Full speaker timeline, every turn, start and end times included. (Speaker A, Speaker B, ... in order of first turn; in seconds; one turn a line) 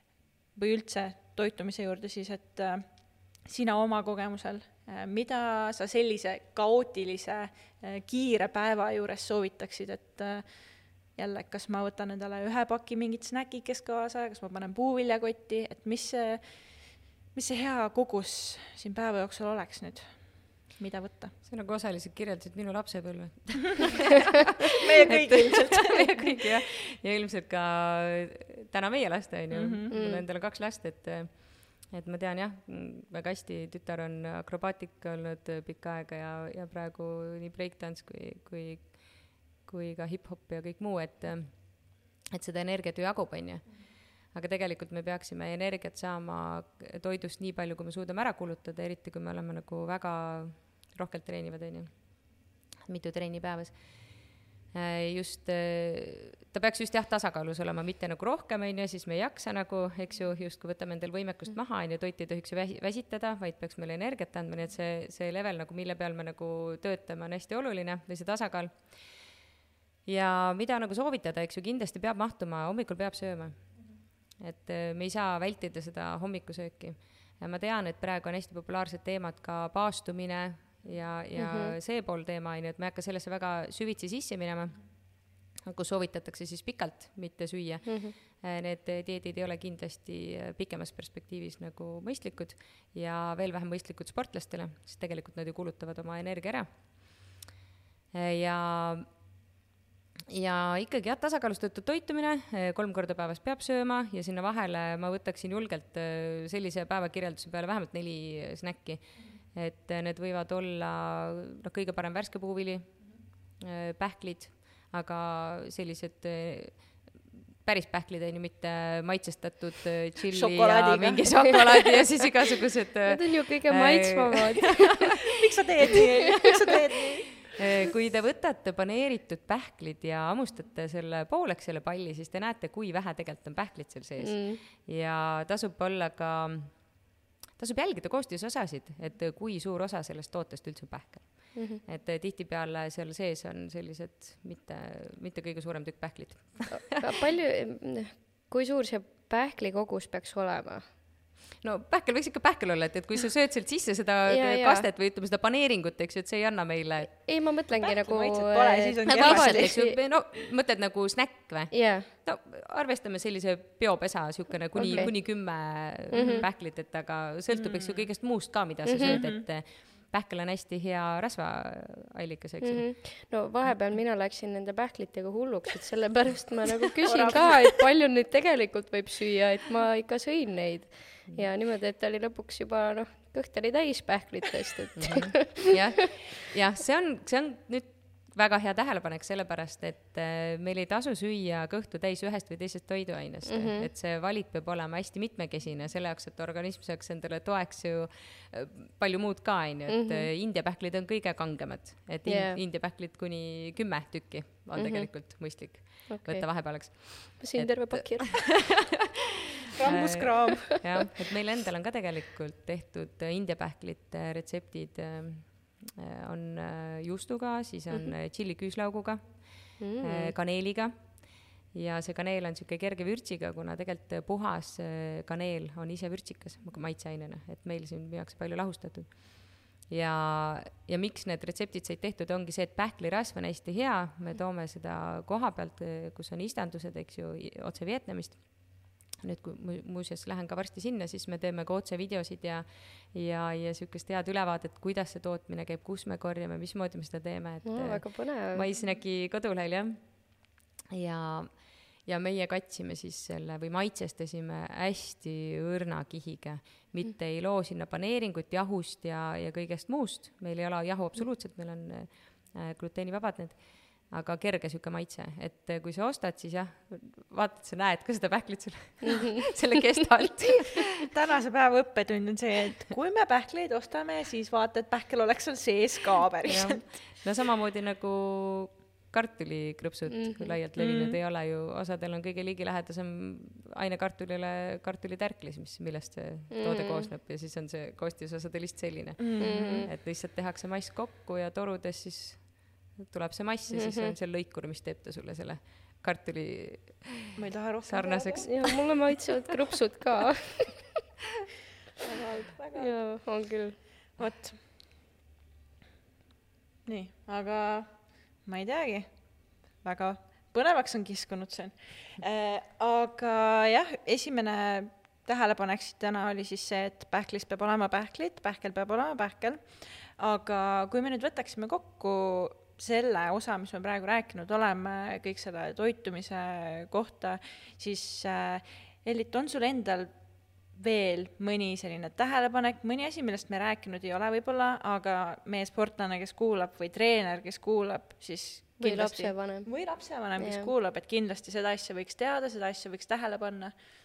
Speaker A: 0.5-21.3
Speaker B: 21.4-24.3
Speaker A: 24.8-26.4
Speaker B: 25.1-69.4
Speaker A: 29.5-29.9
Speaker C: 29.9-30.2
Speaker B: 70.0-97.3
Speaker C: 81.3-81.7
Speaker C: 87.8-88.1
Speaker B: 98.1-99.2
Speaker B: 100.3-124.7
Speaker A: 120.3-122.0
Speaker C: 123.1-125.2
Speaker A: 125.3-127.5
Speaker B: 127.6-147.0
Speaker C: 134.2-134.6
Speaker C: 141.5-141.8
Speaker C: 146.7-150.8
Speaker B: 151.6-157.3
Speaker C: 154.3-154.9
Speaker C: 157.2-160.0
Speaker A: 157.7-159.8
Speaker B: 159.1-173.0
Speaker C: 161.7-162.1
Speaker C: 164.7-166.4
Speaker A: 166.2-166.4
Speaker A: 167.5-168.1
Speaker C: 168.8-169.2
Speaker A: 169.1-169.4
Speaker C: 172.6-185.6
Speaker A: 177.0-177.7
Speaker B: 184.9-208.7
Speaker C: 193.4-193.9
Speaker C: 199.9-200.3
Speaker C: 202.2-202.6
Speaker C: 204.7-208.7
Speaker A: 209.8-210.8
Speaker B: 209.8-271.0
Speaker C: 219.8-220.3
Speaker C: 247.6-248.7
Speaker A: 270.8-277.2
Speaker B: 276.5-297.2
Speaker C: 280.1-280.5
Speaker A: 280.8-281.2
Speaker C: 286.5-287.1
Speaker A: 289.2-289.9
Speaker C: 289.4-289.9
Speaker C: 293.7-294.1
Speaker A: 297.3-298.9
Speaker B: 297.8-298.9
Speaker C: 298.4-300.7
Speaker A: 302.0-303.1
Speaker C: 302.7-303.8
Speaker A: 304.2-304.6
Speaker A: 306.9-343.7
Speaker C: 338.8-340.7